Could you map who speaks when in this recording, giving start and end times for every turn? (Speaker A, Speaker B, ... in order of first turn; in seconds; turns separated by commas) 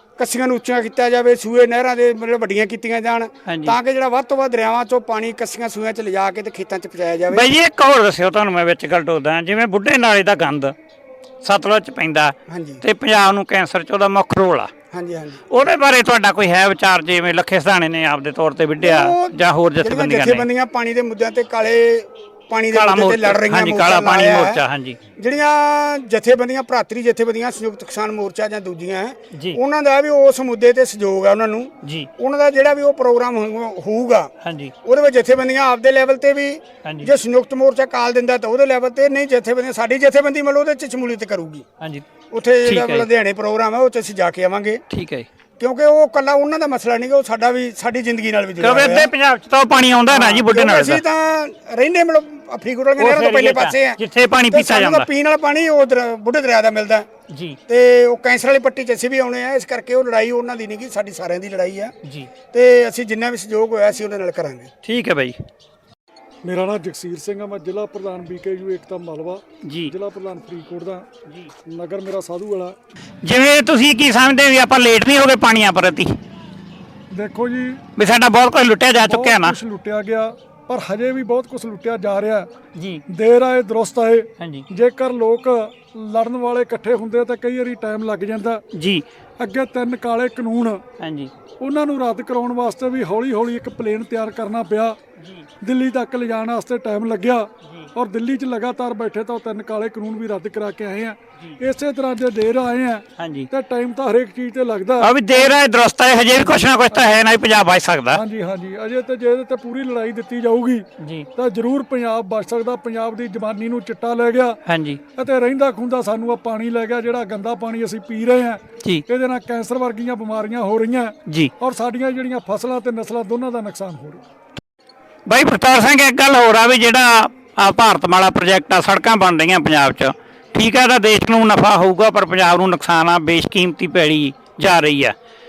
Speaker A: 0.2-7.5, Speaker B: 3.5-3.8, Speaker B: 7.3-10.7, Speaker B: 11.4-14.7, Speaker A: 12.5-12.8, Speaker A: 14.9-15.4, Speaker B: 15.5-20.5, Speaker A: 18.8-24.6, Speaker B: 22.7-25.0, Speaker A: 25.2-34.3, Speaker B: 29.3-29.6, Speaker B: 31.8-32.1, Speaker B: 34.4-34.7, Speaker A: 34.9-41.6, Speaker B: 36.8-37.1, Speaker B: 41.8-42.1, Speaker A: 42.3-44.8, Speaker B: 42.6-43.1, Speaker B: 44.9-45.3, Speaker A: 45.6-49.1, Speaker B: 48.6-51.0, Speaker A: 50.1-54.0, Speaker B: 53.0-55.1, Speaker A: 54.5-57.1, Speaker B: 57.3-57.6, Speaker A: 57.7-61.9, Speaker B: 62.0-62.3, Speaker A: 62.5-64.7, Speaker B: 64.8-65.4, Speaker C: 66.4-71.1, Speaker B: 69.6-69.9, Speaker C: 71.7-72.8, Speaker B: 73.2-76.1, Speaker C: 77.1-77.8, Speaker B: 78.0-79.6, Speaker C: 79.0-82.5, Speaker B: 82.8-83.0, Speaker C: 83.1-88.6, Speaker B: 84.4-84.7, Speaker B: 88.7-89.0, Speaker C: 89.4-90.8, Speaker B: 91.0-91.3, Speaker C: 91.6-95.0, Speaker B: 95.2-95.5, Speaker C: 95.6-105.5, Speaker B: 97.6-97.9, Speaker B: 103.2-103.5, Speaker B: 105.0-108.2, Speaker C: 106.3-107.2, Speaker C: 108.1-114.6, Speaker B: 111.0-111.3, Speaker B: 114.7-115.0, Speaker C: 115.2-124.2, Speaker B: 121.3-121.5, Speaker B: 125.3-135.1